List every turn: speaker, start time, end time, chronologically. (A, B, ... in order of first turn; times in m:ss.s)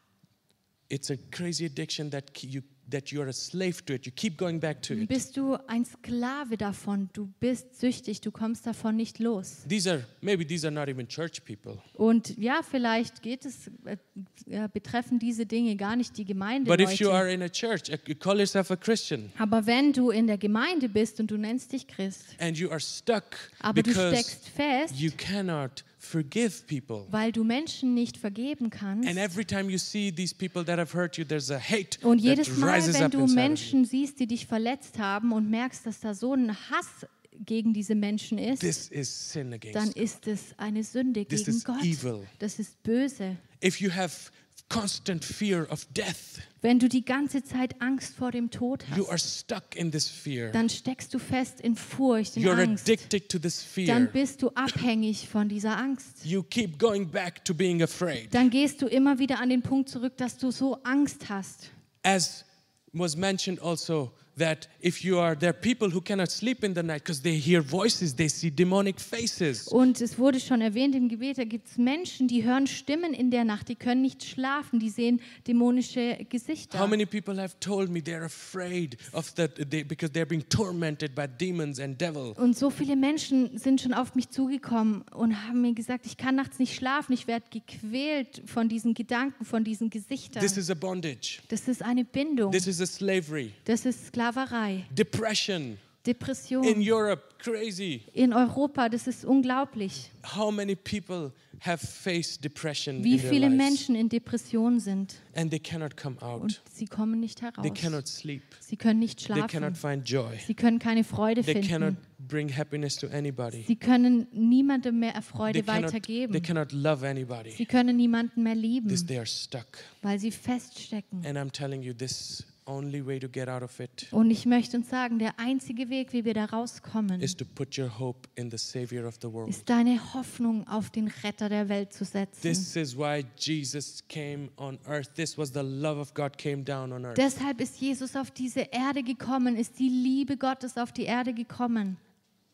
0:00.9-0:05.2 A
0:04.9-0:09.7 B
0:09.6-0:11.9 A
0:12.0-0:17.2 B
0:16.6-0:19.3 A
0:19.4-0:22.4 B
0:22.4-0:24.4 A
0:23.6-0:25.1 B
0:24.9-0:27.1 A
0:27.1-0:29.3 B
0:29.0-0:33.8 A
0:32.0-0:38.8 B
0:38.6-0:40.2 A
0:39.7-0:43.4 B
0:41.3-0:42.3 A
0:43.6-0:46.5 A
0:46.6-0:49.1 B
0:48.9-0:50.6 A
0:50.5-0:53.1 B
0:52.4-0:54.2 A
0:53.8-0:56.2 B
0:56.2-0:58.5 A
0:58.3-1:01.7 B
1:02.0-1:09.7 A
1:09.6-1:17.0 B
1:16.7-1:22.4 A
1:22.4-1:30.6 B
1:30.3-1:31.4 A
1:31.5-1:32.6 B
1:32.5-1:33.6 A
1:33.6-1:34.9 B
1:34.9-1:35.8 A
1:36.0-1:36.9 B
1:36.6-1:38.1 A
1:38.1-1:40.1 B
1:40.2-1:43.8 A
1:43.0-1:45.2 B
1:45.3-1:46.6 A
1:46.4-1:48.0 B
1:47.6-1:48.6 A
1:48.6-1:49.8 B
1:49.3-1:50.5 A
1:50.4-1:52.0 B
1:51.4-1:53.7 A
1:53.6-1:56.5 B
1:55.5-1:57.7 A
1:57.5-1:59.1 B
1:58.8-1:59.9 A
2:00.0-2:01.3 B
2:01.2-2:04.1 A
2:04.1-2:07.4 B
2:07.2-2:09.7 A
2:09.5-2:12.7 B
2:12.4-2:17.2 A
2:17.1-2:22.0 B